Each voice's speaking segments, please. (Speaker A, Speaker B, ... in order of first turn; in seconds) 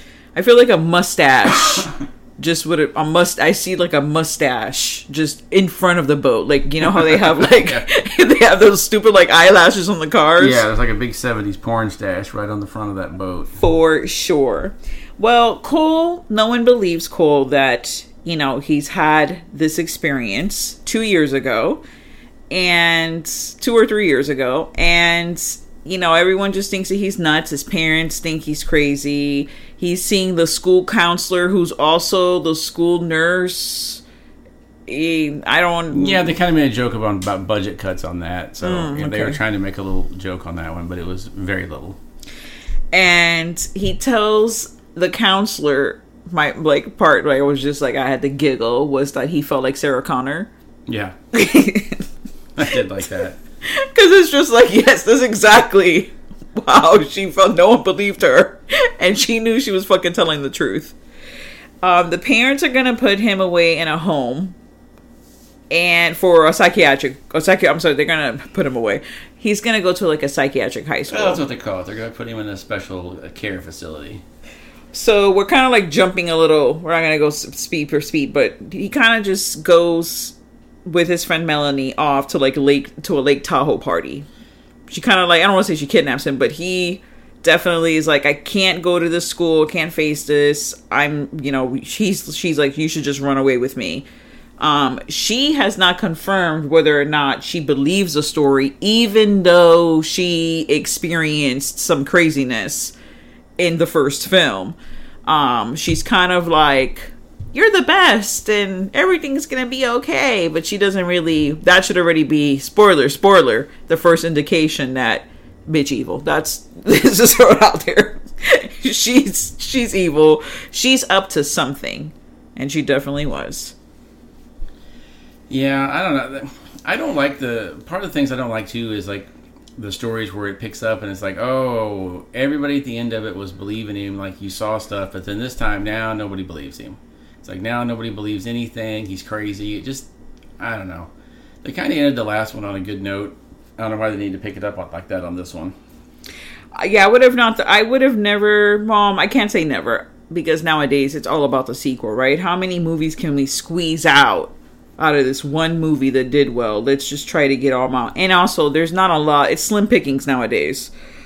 Speaker A: 0.3-10.7, 13.6-21.8, 22.5-34.0, 34.9-36.2, 38.6-39.4, 42.9-50.5, 51.3-52.0, 53.6-61.0, 61.8-64.6, 65.7-71.4, 74.9-80.3, 80.9-84.3, 84.9-94.1, 94.6-102.9, 103.6-123.7, 146.8-160.9
Speaker B: 7.0-7.8, 10.4-13.6, 35.9-42.0, 50.9-51.2, 52.6-53.4, 71.1-74.2, 125.5-140.1, 140.6-141.1, 141.6-145.8